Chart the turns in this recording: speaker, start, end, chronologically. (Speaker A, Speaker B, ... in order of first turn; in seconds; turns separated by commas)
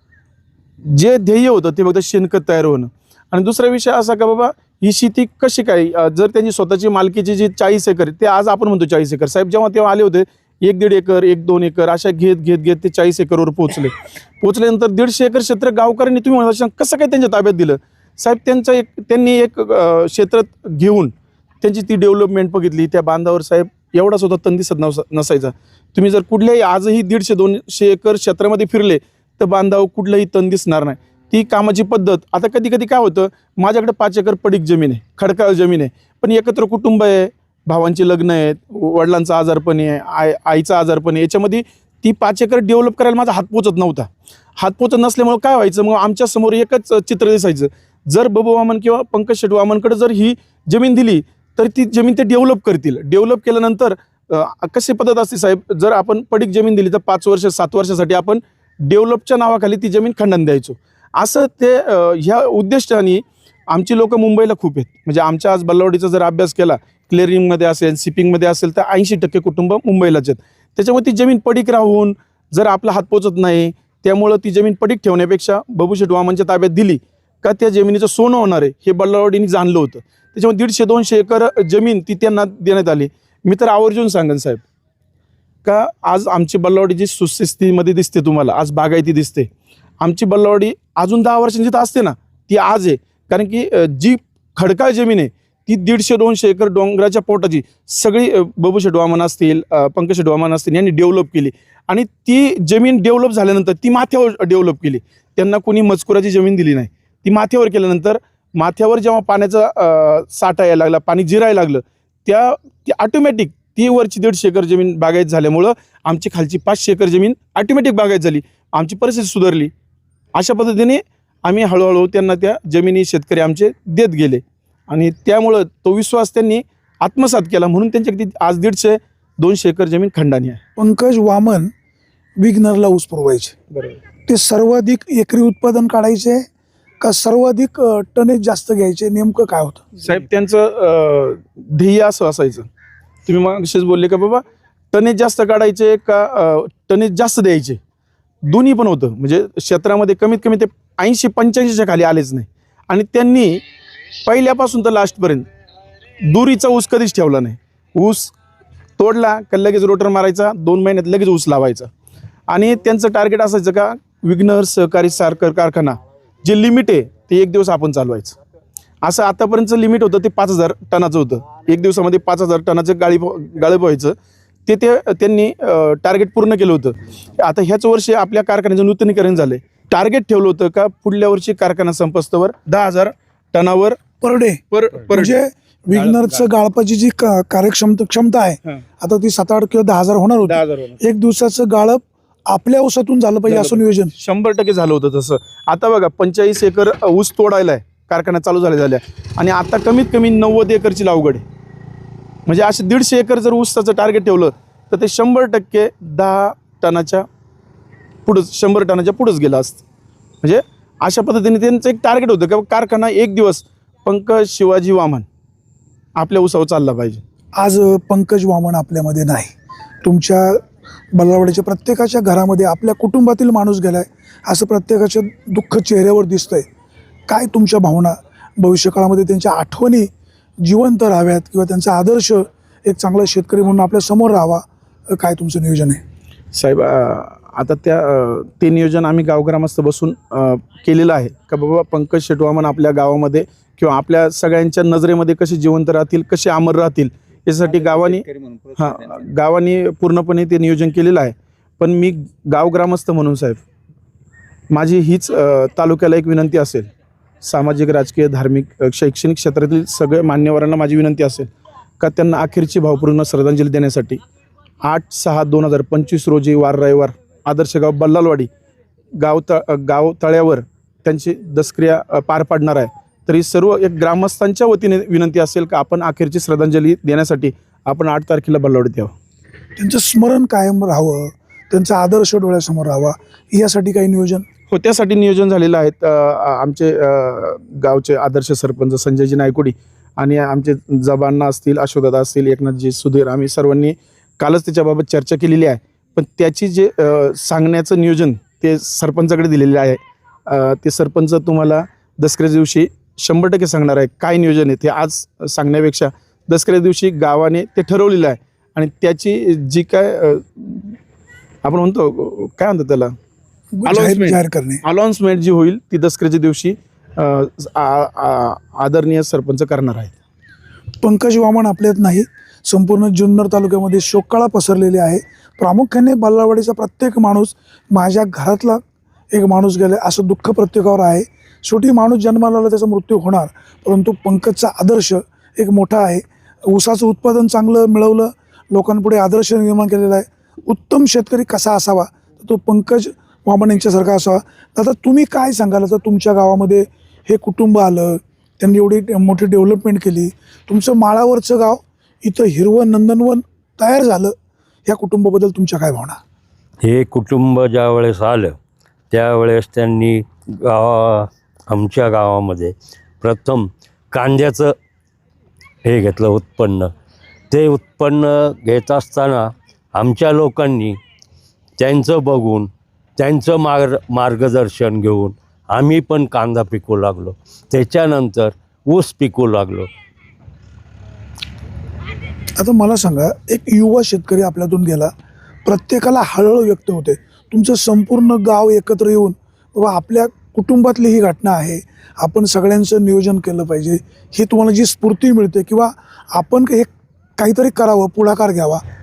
Speaker A: 0.8-84.6, Speaker A: 85.6-89.5, Speaker A: 90.0-119.7, Speaker A: 120.3-130.6, Speaker B: 130.8-131.7, Speaker B: 132.4-133.6, Speaker A: 133.7-134.0, Speaker B: 134.3-136.5, Speaker B: 137.0-139.9, Speaker A: 140.0-142.7, Speaker A: 143.3-147.8, Speaker A: 148.4-153.6, Speaker A: 154.2-155.5, Speaker A: 156.2-158.3, Speaker A: 159.0-161.9, Speaker A: 162.5-168.4, Speaker A: 169.0-184.0, Speaker B: 184.2-194.1, Speaker A: 184.7-185.4, Speaker A: 185.9-186.5, Speaker A: 190.5-191.0, Speaker A: 193.5-201.4, Speaker A: 202.5-207.3, Speaker A: 208.2-209.8, Speaker A: 210.4-215.3, Speaker A: 216.2-217.2, Speaker B: 217.6-226.7, Speaker B: 227.3-230.1, Speaker B: 230.6-236.0, Speaker A: 236.5-253.6, Speaker A: 254.7-256.9, Speaker A: 257.4-264.2, Speaker A: 264.8-268.5, Speaker A: 269.2-279.1, Speaker B: 279.8-284.5, Speaker A: 284.7-311.0, Speaker A: 311.6-313.1, Speaker B: 313.8-314.8, Speaker A: 313.9-320.2, Speaker B: 321.0-354.4, Speaker B: 354.9-356.2, Speaker C: 356.8-358.6, Speaker C: 359.1-364.7, Speaker C: 365.8-366.9, Speaker C: 367.5-371.0, Speaker C: 371.8-379.9, Speaker B: 382.6-385.1, Speaker B: 385.6-398.8